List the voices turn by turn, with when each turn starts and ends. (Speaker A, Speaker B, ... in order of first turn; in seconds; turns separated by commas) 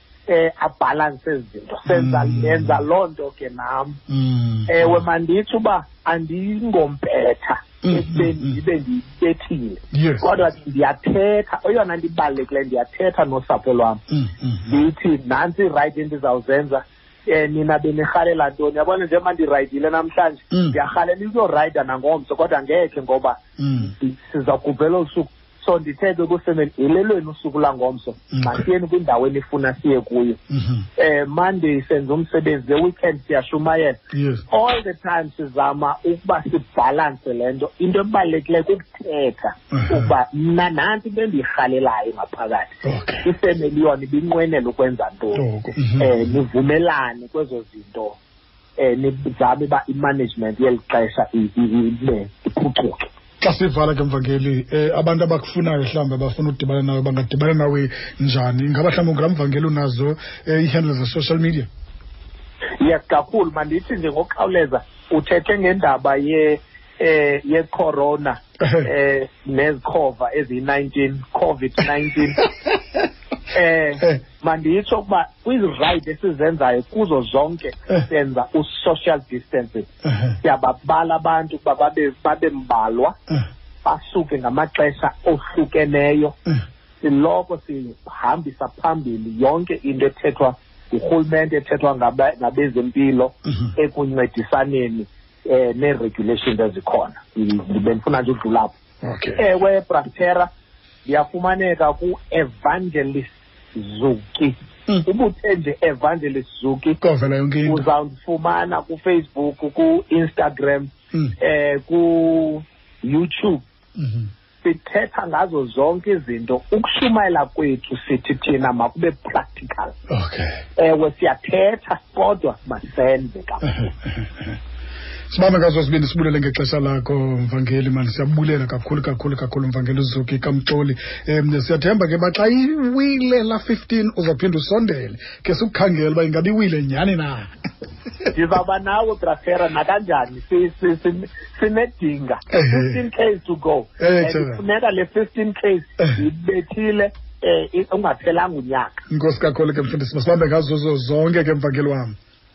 Speaker A: 0.3-4.0, Speaker B: 1.9-2.8, Speaker B: 4.1-5.0, Speaker A: 4.7-14.0, Speaker B: 7.8-8.6, Speaker B: 9.9-10.3, Speaker B: 14.1-14.7, Speaker A: 14.7-23.4, Speaker B: 20.5-20.8, Speaker B: 23.6-23.9, Speaker A: 24.0-30.4, Speaker B: 28.3-28.6, Speaker B: 30.5-30.9, Speaker A: 31.0-34.0, Speaker B: 34.1-34.5, Speaker A: 34.5-45.4, Speaker B: 39.7-40.1, Speaker B: 42.8-43.3, Speaker B: 45.4-46.3, Speaker A: 46.0-48.2, Speaker A: 48.8-53.1, Speaker B: 53.4-61.7, Speaker A: 62.8-72.4, Speaker B: 68.6-68.9, Speaker A: 73.5-79.9, Speaker A: 80.4-83.2, Speaker A: 83.8-86.4, Speaker A: 87.0-98.8, Speaker B: 99.0-99.4, Speaker A: 99.4-100.5, Speaker A: 101.1-107.0, Speaker B: 107.0-107.9, Speaker A: 107.7-113.6, Speaker B: 114.0-114.3, Speaker A: 114.6-120.0, Speaker B: 120.1-120.6, Speaker A: 120.8-123.9, Speaker B: 123.7-124.5, Speaker B: 125.3-137.5, Speaker A: 138.3-149.0, Speaker B: 142.5-142.9, Speaker B: 144.0-144.6, Speaker B: 149.1-152.2